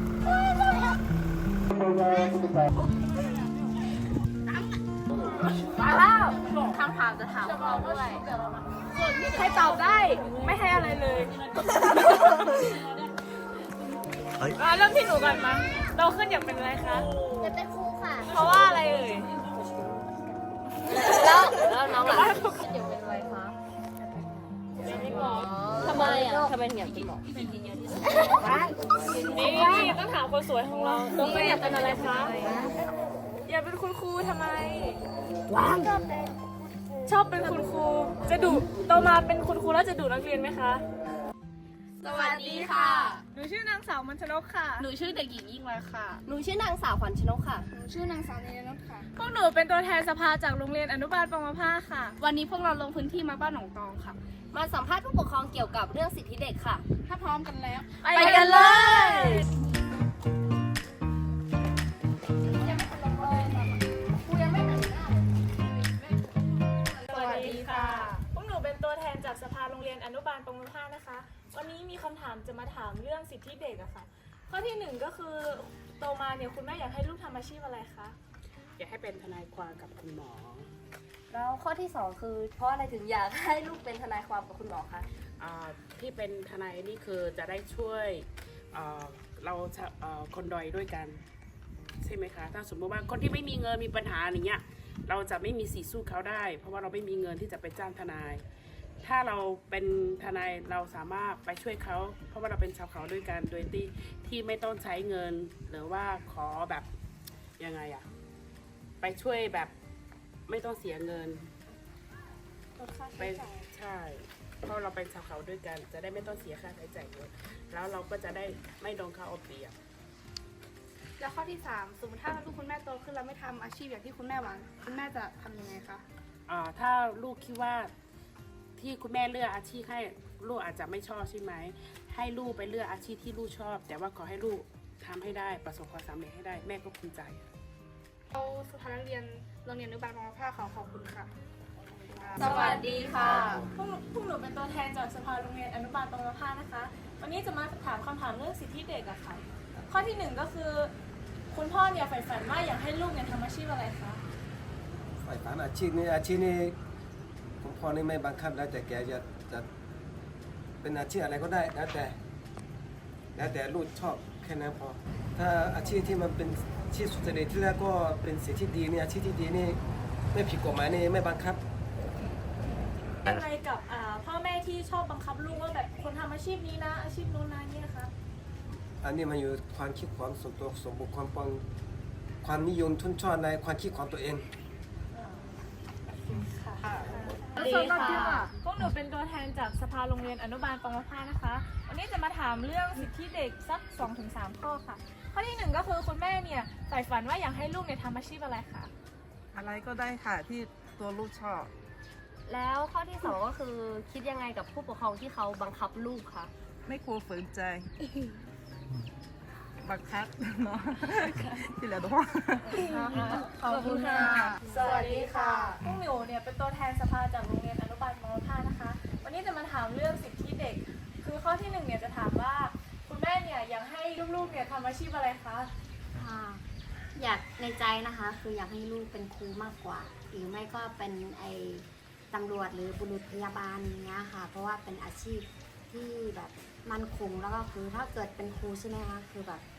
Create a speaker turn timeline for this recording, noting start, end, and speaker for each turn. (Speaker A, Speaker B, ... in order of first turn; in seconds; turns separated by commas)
Speaker A: 5.9-8.2, Speaker B: 6.3-8.2, Speaker C: 9.1-11.3, Speaker C: 14.5-17.1, Speaker B: 17.4-18.3, Speaker C: 18.3-19.3, Speaker B: 20.9-23.5, Speaker C: 22.0-22.7, Speaker C: 24.8-25.5, Speaker B: 24.9-30.0, Speaker C: 29.2-32.4, Speaker B: 31.1-32.8, Speaker C: 33.5-35.0, Speaker B: 35.5-36.0, Speaker C: 37.0-40.8, Speaker A: 42.0-43.2, Speaker C: 43.3-44.9, Speaker A: 44.8-46.2, Speaker B: 46.2-47.6, Speaker A: 47.7-49.1, Speaker C: 49.1-52.2, Speaker A: 52.2-54.2, Speaker B: 54.5-56.8, Speaker A: 57.0-59.1, Speaker C: 58.0-59.4, Speaker A: 62.5-65.3, Speaker A: 65.8-66.2, Speaker A: 67.0-68.2, Speaker C: 67.1-78.2, Speaker D: 78.8-80.7, Speaker B: 81.3-85.0, Speaker D: 85.4-91.2, Speaker D: 92.0-98.4, Speaker D: 99.0-106.9, Speaker D: 107.6-108.1, Speaker D: 109.0-109.7, Speaker D: 110.5-111.5, Speaker A: 113.0-113.3, Speaker D: 113.2-119.8, Speaker A: 121.2-126.0, Speaker D: 126.5-127.9, Speaker D: 128.8-137.4, Speaker A: 138.3-141.3, Speaker A: 142.0-143.6, Speaker C: 142.4-150.9, Speaker B: 142.6-143.4, Speaker C: 151.5-154.2, Speaker E: 155.2-156.8, Speaker E: 157.6-159.7, Speaker E: 160.8-162.2, Speaker E: 163.3-169.8, Speaker E: 170.3-171.6, Speaker C: 173.2-178.1, Speaker E: 179.0-181.6, Speaker E: 182.4-184.4, Speaker A: 186.8-188.5, Speaker C: 187.5-198.9, Speaker F: 199.5-201.7, Speaker B: 202.5-206.5, Speaker F: 206.8-207.9, Speaker F: 209.8-212.8, Speaker C: 212.7-225.7, Speaker A: 212.9-215.8, Speaker F: 213.7-214.4, Speaker G: 226.2-226.6, Speaker G: 227.1-239.6